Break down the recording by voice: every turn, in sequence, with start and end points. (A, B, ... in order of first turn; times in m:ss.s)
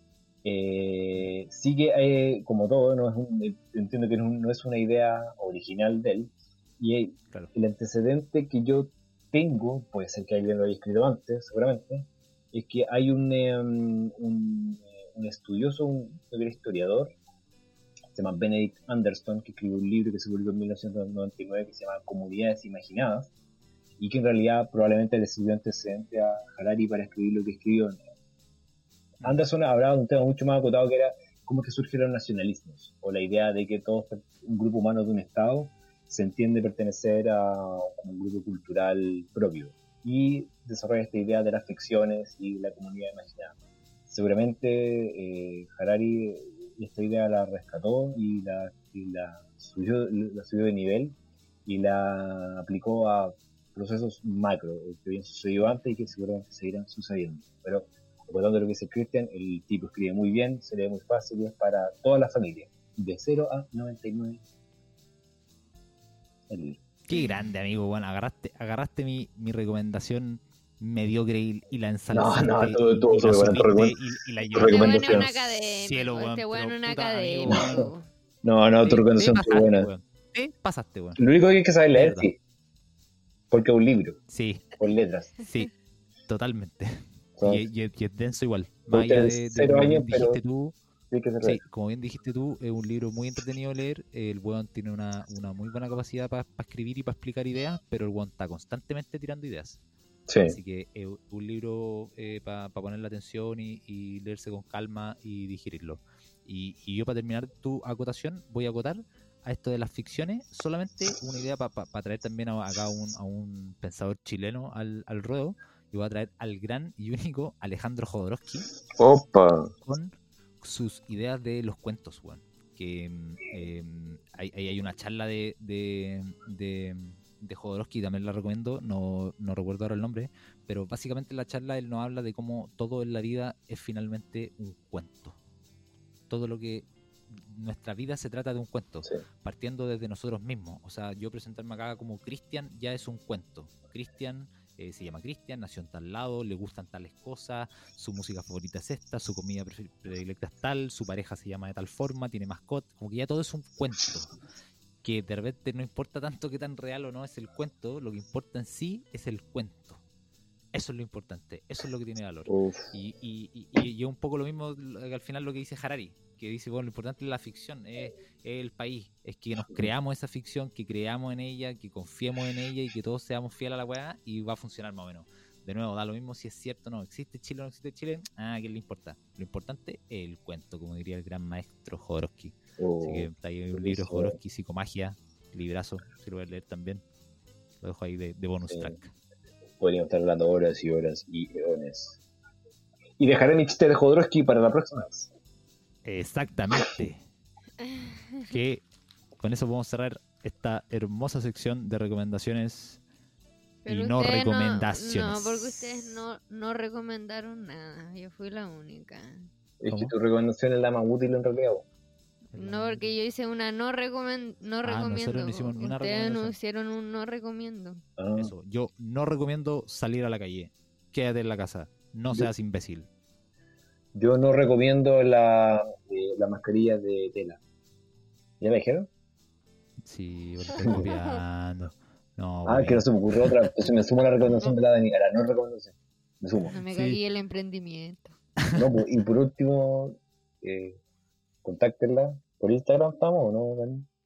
0:00.4-0:17.1 A
0:18.1-0:23.3 A
0:24.0-0:28.0 A
0:29.2-0:43.5 A
0:44.1-1:04.4 A
1:06.5-1:06.8 A
1:07.1-1:17.9 B
1:12.1-1:15.3 A
1:14.5-1:18.1 C
1:17.5-1:17.8 A
1:18.4-1:19.9 A
1:18.8-1:21.2 B
1:21.2-1:22.4 A
1:21.9-1:22.3 B
1:23.5-1:24.2 A
1:24.3-1:24.8 B
1:24.8-1:25.3 A
1:25.4-1:25.7 B
1:26.3-1:30.7 B
1:27.4-1:27.6 A
1:28.9-1:30.4 A
1:31.1-1:31.6 A
1:31.4-1:39.8 B
1:40.3-1:40.6 A
1:40.4-1:58.7 B
1:59.0-1:59.7 A
1:59.8-2:15.4 B
2:16.3-2:34.3 B
2:35.0-2:40.0 B
2:40.7-3:07.0 B
2:42.5-2:42.9 A
3:02.8-3:04.4 A
3:07.8-3:09.1 B
3:08.7-3:09.0 A
3:09.8-3:12.2 A
3:13.2-3:15.3 A
3:16.0-3:17.2 B
3:17.8-3:18.5 C
3:18.5-3:18.8 B
3:19.4-3:23.0 B
3:23.8-3:29.5 C
3:23.9-3:25.9 B
3:29.8-3:31.8 A
3:29.9-3:30.1 B
3:32.5-3:33.1 B
3:32.6-3:38.0 C
3:34.8-3:36.5 B
3:38.2-3:38.5 A
3:38.4-3:43.1 B
3:44.1-3:47.6 A
3:48.6-3:49.1 A
3:50.0-3:53.5 B
3:50.8-3:51.1 A
3:51.0-3:51.3 C
3:52.6-3:56.8 A
3:56.7-3:57.2 B
3:56.7-3:58.4 C
3:58.7-4:01.0 A
4:01.6-4:04.1 A